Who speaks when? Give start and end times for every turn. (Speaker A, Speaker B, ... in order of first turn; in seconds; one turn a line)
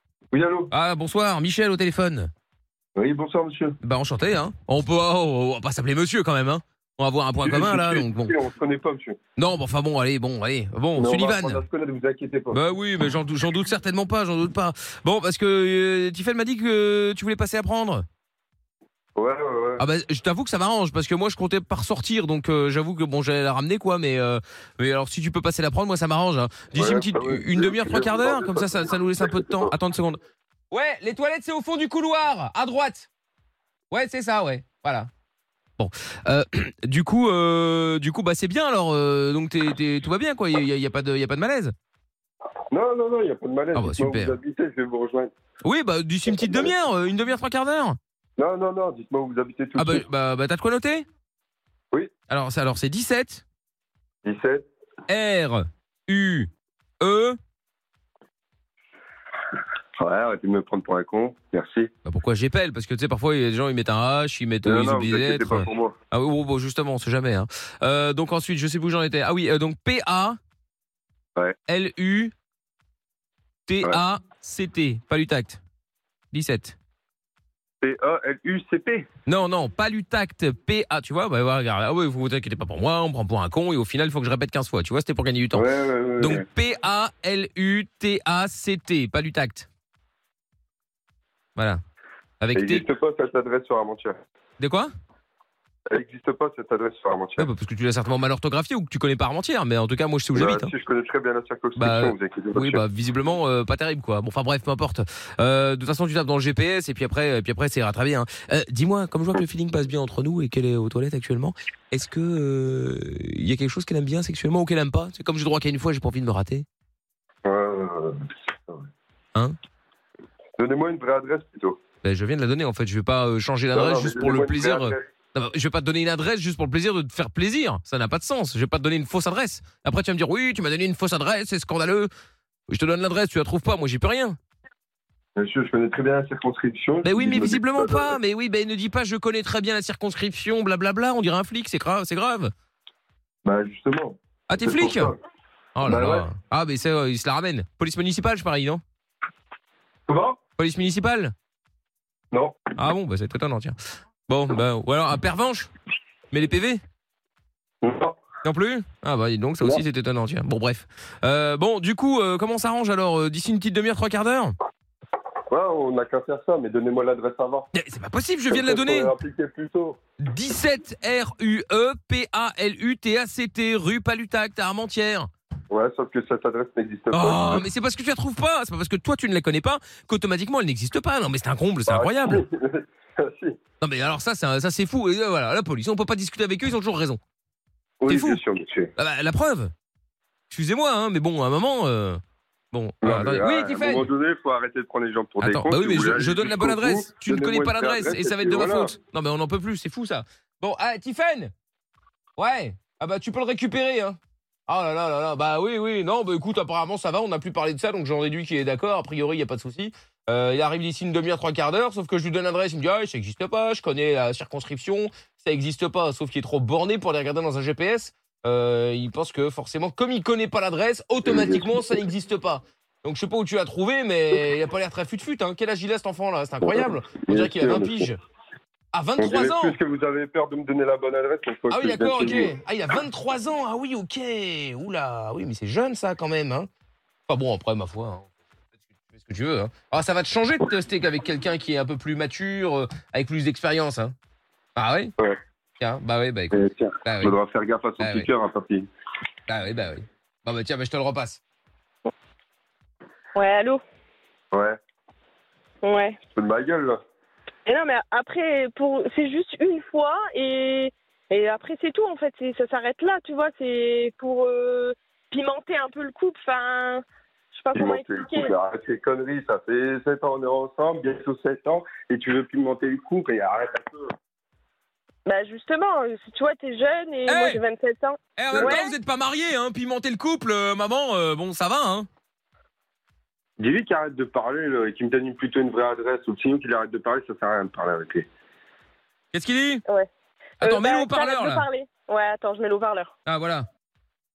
Speaker A: 0.3-0.7
Speaker B: 0.7-2.3
Speaker A: 3.0-3.8
Speaker B: 3.8-8.3
Speaker A: 7.4-9.2
Speaker B: 9.4-11.6
Speaker A: 10.9-12.6
Speaker B: 12.5-18.0
Speaker A: 19.1-19.8
Speaker B: 19.8-30.2
Speaker A: 26.7-29.6
Speaker B: 30.7-33.1
Speaker B: 33.9-35.1
Speaker B: 35.8-41.7
Speaker A: 42.7-45.3
Speaker B: 43.7-44.4
Speaker B: 45.6-48.0
Speaker A: 46.3-46.7
Speaker A: 48.4-50.0
Speaker B: 49.8-51.0
Speaker B: 52.3-53.4
Speaker A: 54.2-54.6
Speaker B: 55.1-56.5
Speaker B: 57.0-57.4
Speaker A: 60.0-61.9
Speaker B: 62.0-70.4
Speaker A: 64.6-66.0
Speaker B: 71.7-72.3
Speaker B: 73.7-75.6
Speaker B: 76.3-76.8
Speaker A: 77.8-79.1
Speaker B: 79.3-89.7
Speaker A: 85.5-86.4
Speaker B: 91.5-91.8
Speaker B: 92.4-92.8
Speaker A: 92.5-94.2
Speaker B: 94.6-94.9
Speaker A: 95.9-97.5
Speaker B: 97.4-100.7
Speaker A: 100.3-102.8
Speaker B: 101.8-116.7
Speaker A: 117.4-118.9
Speaker A: 120.6-121.8
Speaker B: 122.0-132.1
Speaker A: 123.7-125.0
Speaker B: 132.7-134.4
Speaker A: 135.3-138.2
Speaker B: 137.0-142.5
Speaker A: 143.4-145.2
Speaker B: 144.5-145.1
Speaker B: 145.8-148.8
Speaker A: 145.8-146.2
Speaker A: 150.1-150.4
Speaker B: 150.6-151.3
Speaker A: 152.3-152.7
Speaker B: 152.7-153.8
Speaker B: 154.3-155.7
Speaker B: 156.3-156.8
Speaker A: 157.8-158.2
Speaker B: 158.4-164.6
Speaker A: 165.5-167.7
Speaker B: 167.7-169.1
Speaker A: 168.5-170.0
Speaker B: 170.2-175.3
Speaker A: 175.7-177.7
Speaker B: 177.1-182.4
Speaker A: 181.9-183.6
Speaker B: 183.8-187.2
Speaker A: 188.0-188.9
Speaker B: 188.1-188.4
Speaker B: 189.0-189.7
Speaker B: 190.5-192.2
Speaker B: 192.7-194.1
Speaker A: 193.0-198.9
Speaker B: 195.4-201.5
Speaker B: 202.4-204.2
Speaker B: 204.7-228.2
Speaker A: 221.2-222.0
Speaker A: 226.6-228.1
Speaker B: 228.9-229.8
Speaker A: 229.2-232.5
Speaker B: 231.7-236.7
Speaker B: 237.3-238.3
Speaker B: 239.1-244.1
Speaker B: 244.8-245.1
Speaker B: 245.8-247.3
Speaker A: 246.5-248.9
Speaker B: 248.0-248.3
Speaker B: 249.5-251.4
Speaker C: 253.3-253.8
Speaker A: 254.5-254.8
Speaker C: 255.8-256.2
Speaker A: 256.3-257.0
Speaker C: 257.6-268.5
Speaker A: 267.7-274.1
Speaker C: 275.2-278.8
Speaker B: 277.3-277.6
Speaker B: 278.4-282.1
Speaker A: 278.5-278.8
Speaker A: 283.6-288.2
Speaker B: 289.3-289.8
Speaker B: 290.6-291.6
Speaker C: 290.6-293.1
Speaker B: 293.2-293.7